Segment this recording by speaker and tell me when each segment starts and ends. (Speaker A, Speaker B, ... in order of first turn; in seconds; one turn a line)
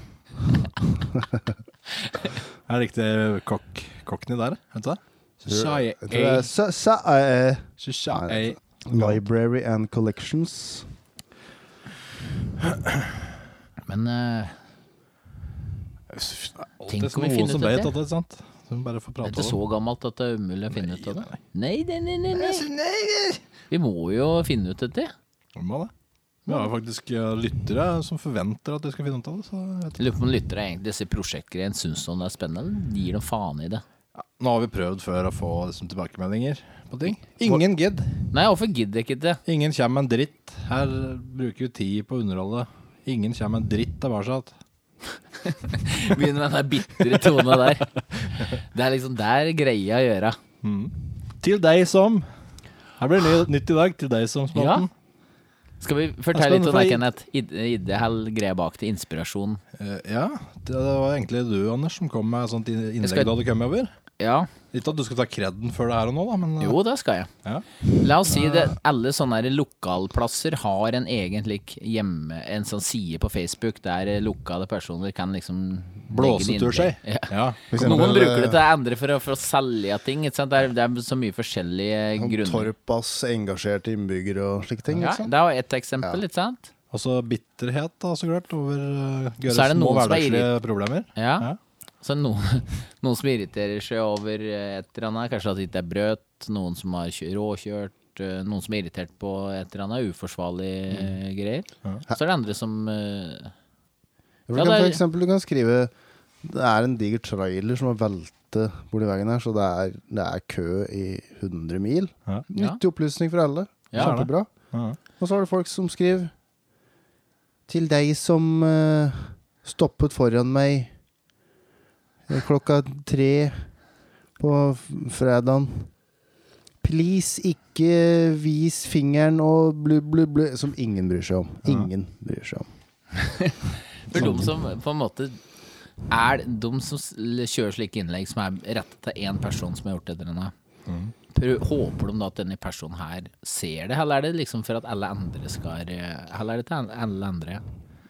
Speaker A: 2.7-6.5
Speaker B: 5.5-10.9
Speaker A: 7.8-9.2
Speaker C: 13.9-14.6
Speaker A: 16.1-19.6
Speaker C: 16.9-17.9
Speaker C: 19.2-22.7
Speaker A: 20.7-21.4
Speaker A: 22.3-23.4
Speaker C: 23.7-25.1
Speaker A: 25.5-25.9
Speaker A: 26.4-30.0
Speaker C: 30.0-33.8
Speaker A: 34.1-38.2
Speaker C: 38.3-39.4
Speaker A: 39.5-44.5
Speaker C: 45.5-50.4
Speaker A: 47.1-47.7
Speaker A: 50.6-52.3
Speaker A: 53.0-54.9
Speaker C: 54.5-54.9
Speaker C: 55.8-59.6
Speaker A: 56.3-57.0
Speaker A: 59.8-63.9
Speaker C: 63.0-63.3
Speaker C: 64.2-64.5
Speaker A: 64.7-66.8
Speaker C: 66.6-67.3
Speaker C: 68.0-82.7
Speaker A: 76.1-78.2
Speaker B: 77.7-78.6
Speaker B: 82.2-85.3
Speaker C: 84.9-86.7
Speaker A: 86.9-91.6
Speaker C: 89.5-90.5
Speaker C: 91.2-91.5
Speaker C: 92.0-103.5
Speaker B: 104.5-105.9
Speaker C: 104.5-105.0
Speaker B: 106.4-114.5
Speaker A: 114.0-115.0
Speaker B: 115.2-116.3
Speaker B: 117.7-120.9
Speaker B: 122.3-123.6
Speaker B: 124.4-125.9
Speaker B: 126.8-132.7
Speaker C: 133.2-133.6
Speaker C: 134.1-135.4
Speaker C: 136.1-140.5
Speaker A: 140.9-141.1
Speaker C: 141.3-147.6